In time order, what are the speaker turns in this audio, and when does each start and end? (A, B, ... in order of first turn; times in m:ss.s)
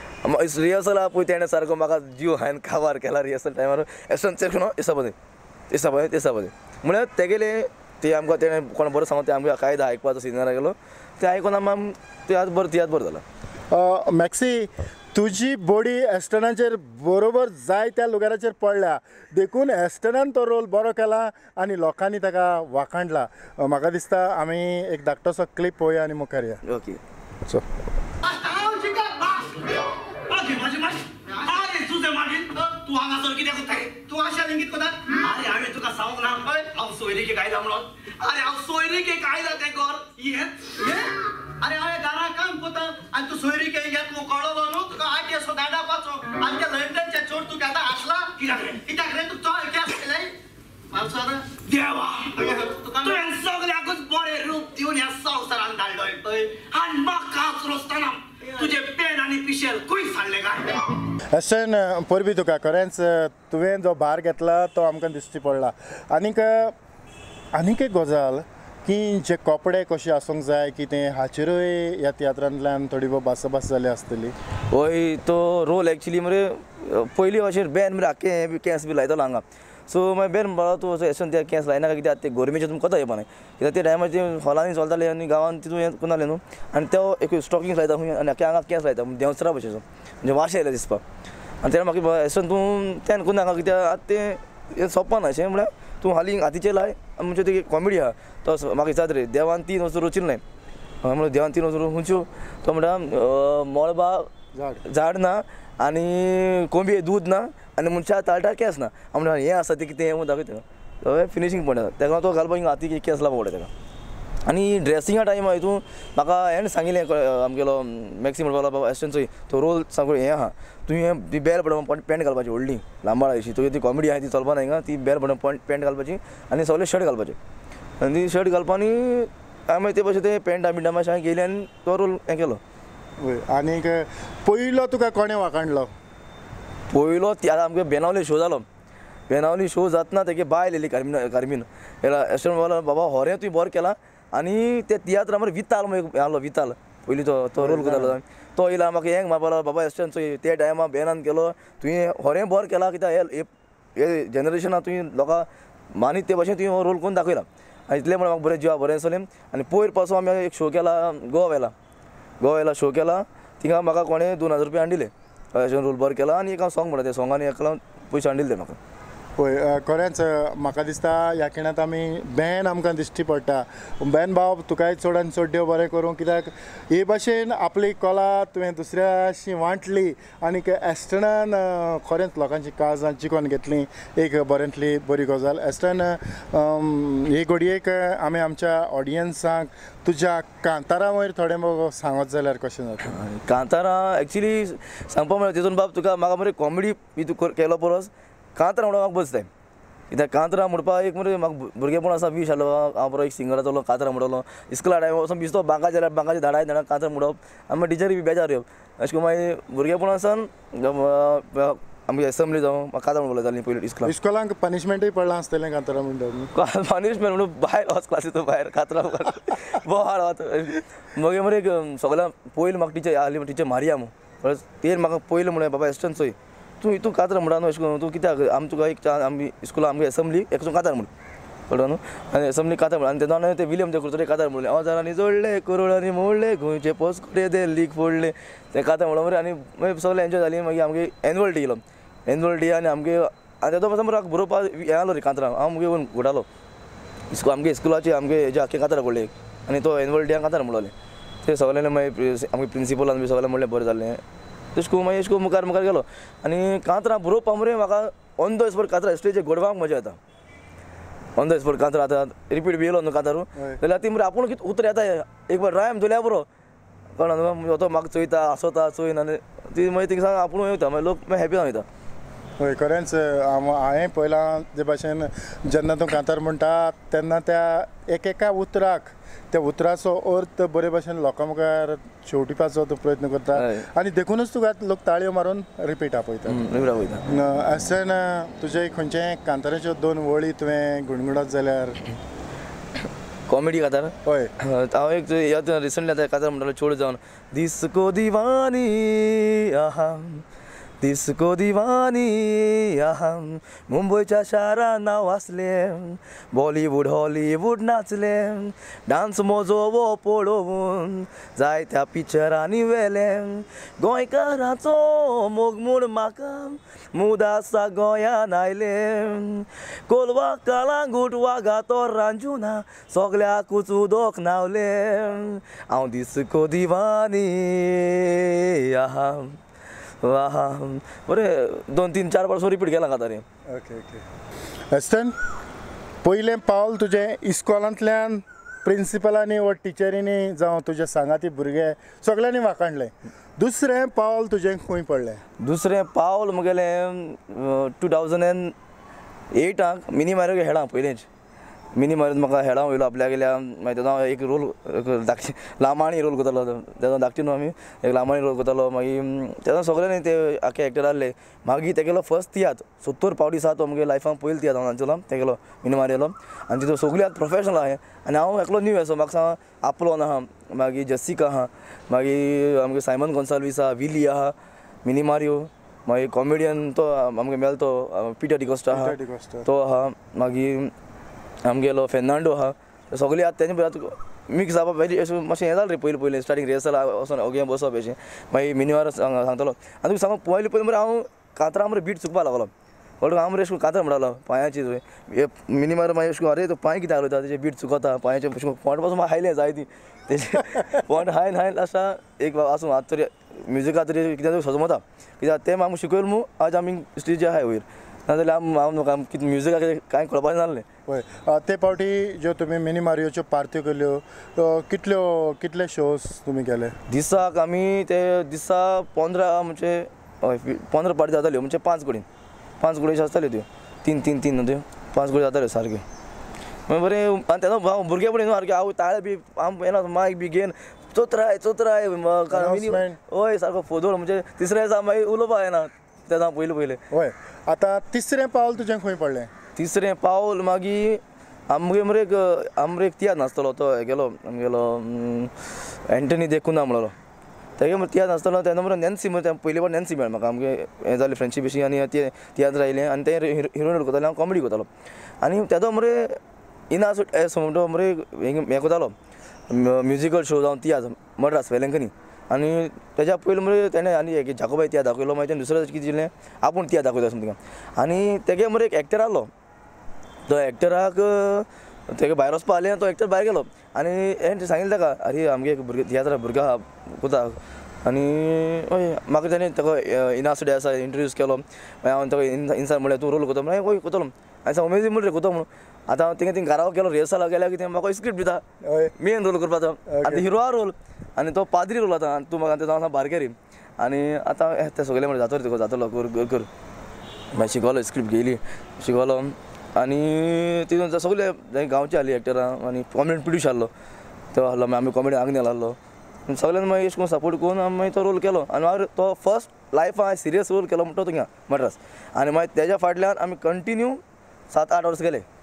0:00.2-0:05.2 A
0:05.7-0:13.2 A
0:13.7-0:26.6 B
0:26.7-0:27.0 A
0:28.2-0:50.4 C
0:50.9-1:01.0 C
1:01.3-1:06.8 B
1:07.6-1:14.3 B
1:14.7-1:31.0 A
1:31.6-1:40.4 A
1:41.0-1:44.3 A
1:44.6-1:44.8 B
1:44.9-1:53.7 A
1:54.5-2:07.4 A
2:08.0-2:12.6 A
2:13.2-2:15.9 B
2:16.9-2:18.6 A
2:19.3-2:41.7 A
2:27.6-2:28.2 B
2:42.4-2:48.8 A
2:49.4-3:13.1 B
3:13.0-3:19.5 A
3:20.1-3:34.1 A
3:34.0-3:36.5 B
3:36.5-3:51.1 A
3:51.7-4:06.5 A
4:07.3-4:10.9 A
4:11.4-4:14.2 A
4:14.7-4:20.2 A
4:21.4-4:26.5 A
4:27.2-4:31.9 A
4:32.6-4:46.6 B
4:43.6-4:43.9 A
4:46.5-4:47.2 A
4:47.3-4:52.0 B
4:53.5-5:00.4 A
4:54.3-4:54.5 B
5:01.0-5:29.6 A
5:30.2-5:33.4 A
5:33.7-5:34.2 B
5:34.9-5:35.3 B
5:36.2-5:45.4 B
5:45.6-5:48.8 A
5:49.6-5:51.3 A
5:52.0-6:20.9 A
6:18.9-6:19.7 B
6:21.6-6:50.9 A
6:51.1-6:57.0 B
6:57.1-7:02.3 A
7:02.8-7:06.0 A
7:06.9-7:17.0 A
7:12.5-7:13.2 B
7:17.1-7:19.5 B
7:19.8-7:27.2 A
7:27.8-7:34.9 A
7:35.4-7:36.4 A
7:36.9-7:39.2 A
7:39.7-7:49.5 A
7:50.5-8:08.6 A
8:08.8-8:09.1 B
8:09.2-8:16.7 A
8:10.1-8:10.5 B
8:17.5-8:23.9 A
8:24.5-8:35.5 A